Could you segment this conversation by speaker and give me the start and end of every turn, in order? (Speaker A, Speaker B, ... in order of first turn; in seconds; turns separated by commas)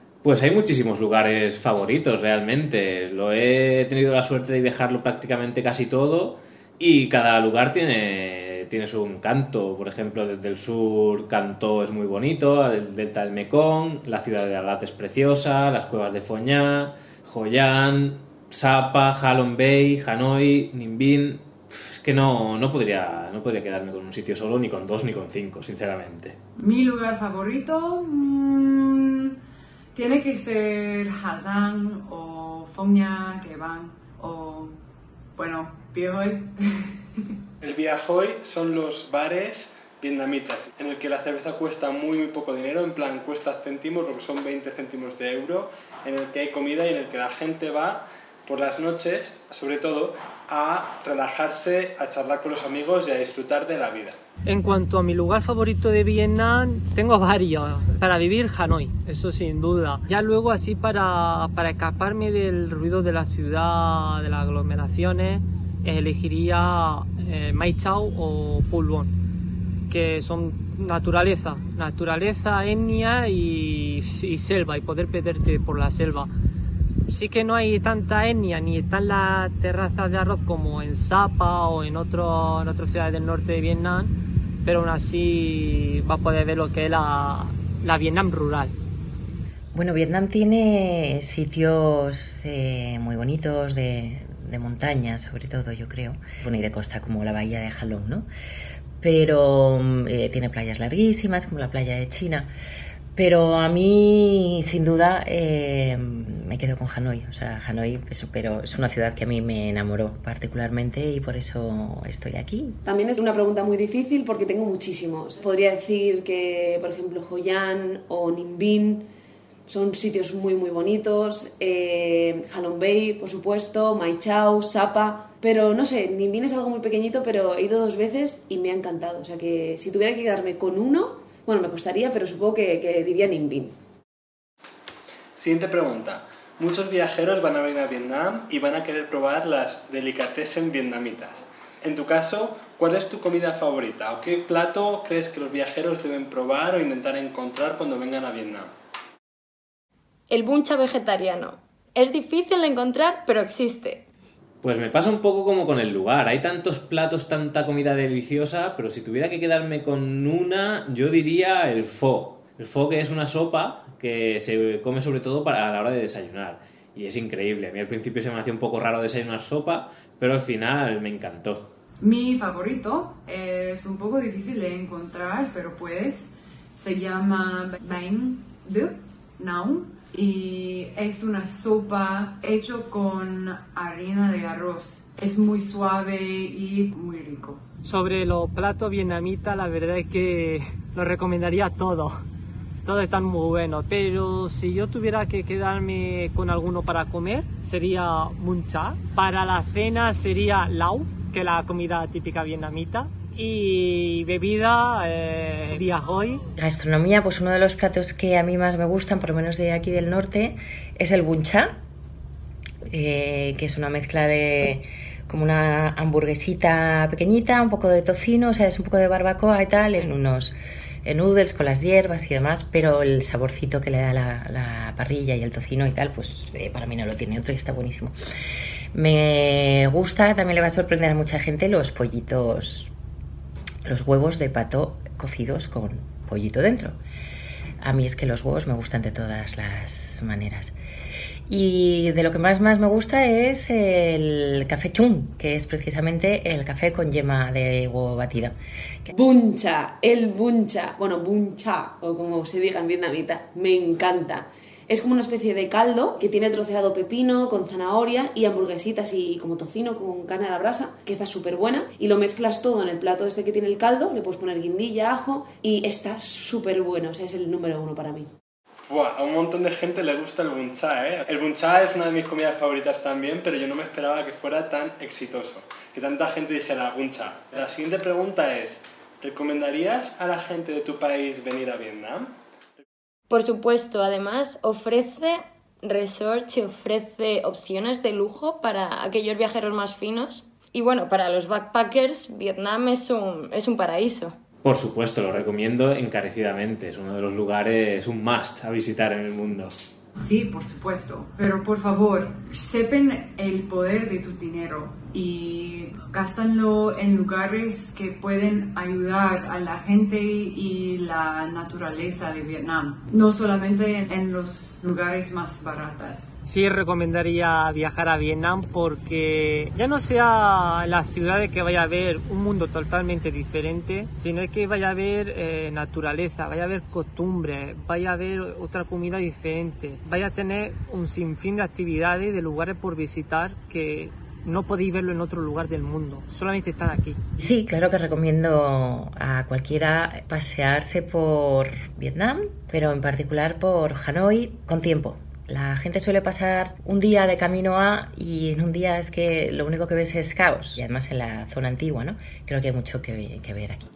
Speaker A: 0.2-26.4, Speaker B: 26.6-29.3, Speaker B: 29.9-34.7, Speaker B: 35.4-36.9, Speaker C: 37.6-54.2, Speaker D: 54.5-69.1, Speaker D: 69.9-76.3, Speaker D: 77.1-88.8, Speaker E: 89.7-98.3, Speaker E: 99.0-102.5, Speaker E: 103.2-112.8, Speaker F: 112.8-119.1, Speaker F: 119.7-133.7, Speaker C: 135.3-148.7, Speaker G: 150.3-154.1, Speaker A: 154.6-171.7, Speaker B: 172.0-187.6, Speaker D: 187.8-192.2, Speaker D: 192.8-206.4, Speaker E: 206.6-211.8, Speaker E: 212.8-228.1, Speaker E: 228.9-232.9, Speaker E: 233.8-237.0, Speaker E: 237.8-240.7, Speaker E: 241.5-249.1, Speaker F: 249.1-268.3, Speaker C: 268.9-282.3, Speaker G: 283.3-294.4, Speaker A: 294.6-299.7, Speaker B: 300.1-316.4, Speaker D: 316.5-337.2, Speaker E: 337.4-353.9